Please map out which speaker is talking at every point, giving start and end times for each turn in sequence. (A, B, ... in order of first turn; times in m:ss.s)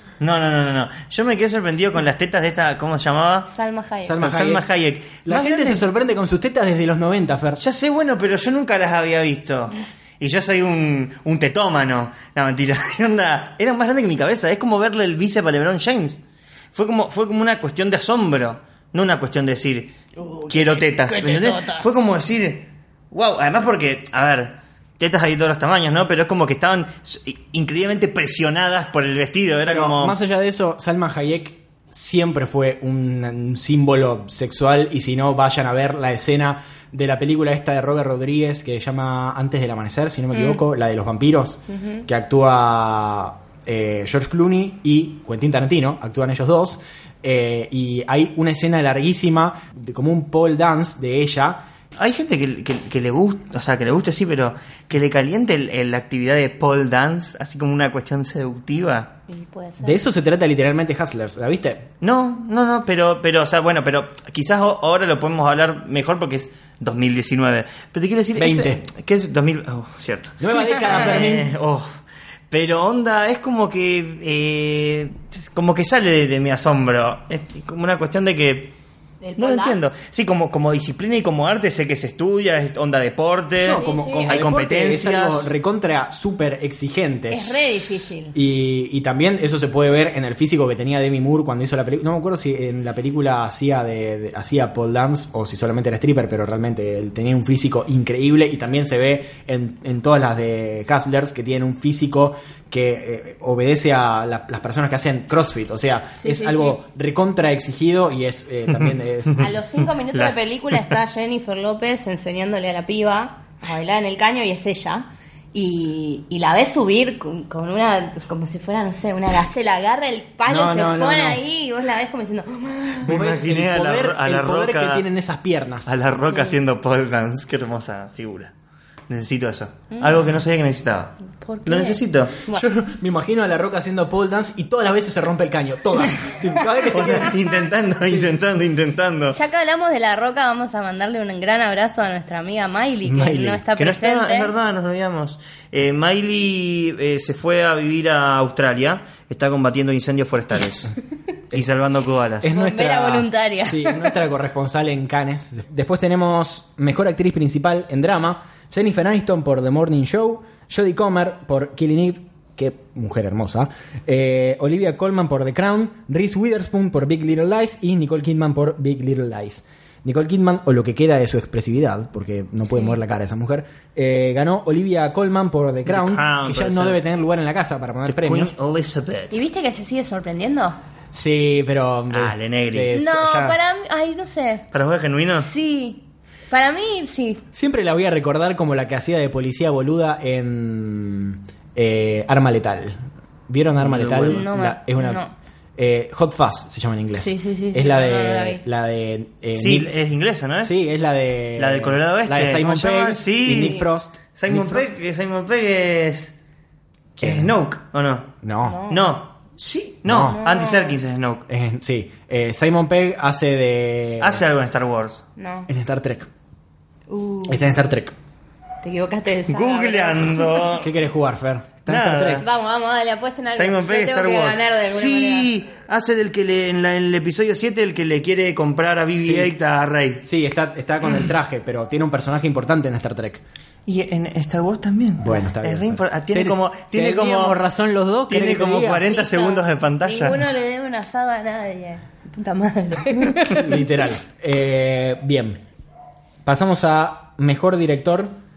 0:00.2-0:03.5 A
0:03.5-0:04.2 B
0:04.0-0:04.7 C
0:04.2-0:05.8 A
0:05.2-0:07.6 C
0:07.6-0:16.2 A
0:16.7-0:19.9 A
0:20.2-0:21.9 B
0:20.5-0:30.2 A
0:29.7-0:51.6 C
0:40.3-0:40.6 B
0:52.0-0:59.1 A
0:59.3-1:00.0 B
0:59.8-1:01.9 C
1:02.0-1:11.9 A
1:08.4-1:08.8 C
1:10.4-1:11.5 C
1:12.5-1:18.7 A
1:19.2-1:19.8 B
1:19.4-1:25.5 A
1:23.6-1:49.5 C
1:23.7-1:24.4 B
1:27.3-1:28.4 B
1:46.2-1:46.8 B
1:49.4-2:03.1 B
1:50.1-1:50.9 A
2:00.5-2:01.4 C
2:03.0-2:05.0 A
2:03.1-2:05.9 C
2:05.9-2:08.5 A
2:06.3-2:06.6 B
2:09.1-2:12.4 A
2:09.9-2:10.3 B
2:11.3-2:12.6 B
2:12.5-2:17.4 C
2:16.8-2:19.4 A
2:19.3-2:24.5 B
2:23.0-2:23.6 C
2:23.8-2:31.0 A
2:31.5-2:32.5 A
2:32.4-2:58.6 C
2:32.5-2:34.1 B
2:52.7-2:53.0 B
2:55.9-2:57.0 A
2:58.1-2:59.4 A
2:59.3-3:00.8 B
3:01.1-3:03.6 C
3:02.1-3:02.9 A
3:02.9-3:04.7 B
3:04.7-3:05.5 A
3:05.4-3:07.4 B
3:07.5-3:15.2 C
3:13.8-3:14.4 A
3:14.3-3:15.3 B
3:15.8-3:19.9 C
3:17.2-3:18.6 B
3:19.5-3:20.8 A
3:20.6-3:24.9 C
3:21.6-3:23.8 A
3:23.6-3:23.8 B
3:24.4-3:26.3 A
3:27.2-3:27.6 C
3:27.2-3:28.4 A
3:28.4-3:28.8 C
3:28.6-3:29.1 B
3:28.9-3:31.5 A
3:30.0-3:30.4 C
3:30.3-3:31.0 B
3:31.5-3:34.4 C
3:34.2-3:35.2 A
3:35.4-3:35.7 B
3:35.7-3:36.3 C
3:37.1-3:37.8 B
3:37.5-3:38.2 C
3:38.8-3:40.7 B
3:39.5-3:40.9 A
3:40.8-3:42.5 C
3:41.9-3:42.5 A
3:42.4-3:45.5 B
3:43.5-3:50.2 A
3:49.2-3:49.5 C
3:50.2-3:53.4 C
3:53.9-3:57.6 A
3:55.2-3:59.1 C
3:58.3-4:00.5 A
3:59.1-4:03.8 B
4:03.5-4:05.6 C
4:06.4-4:08.3 C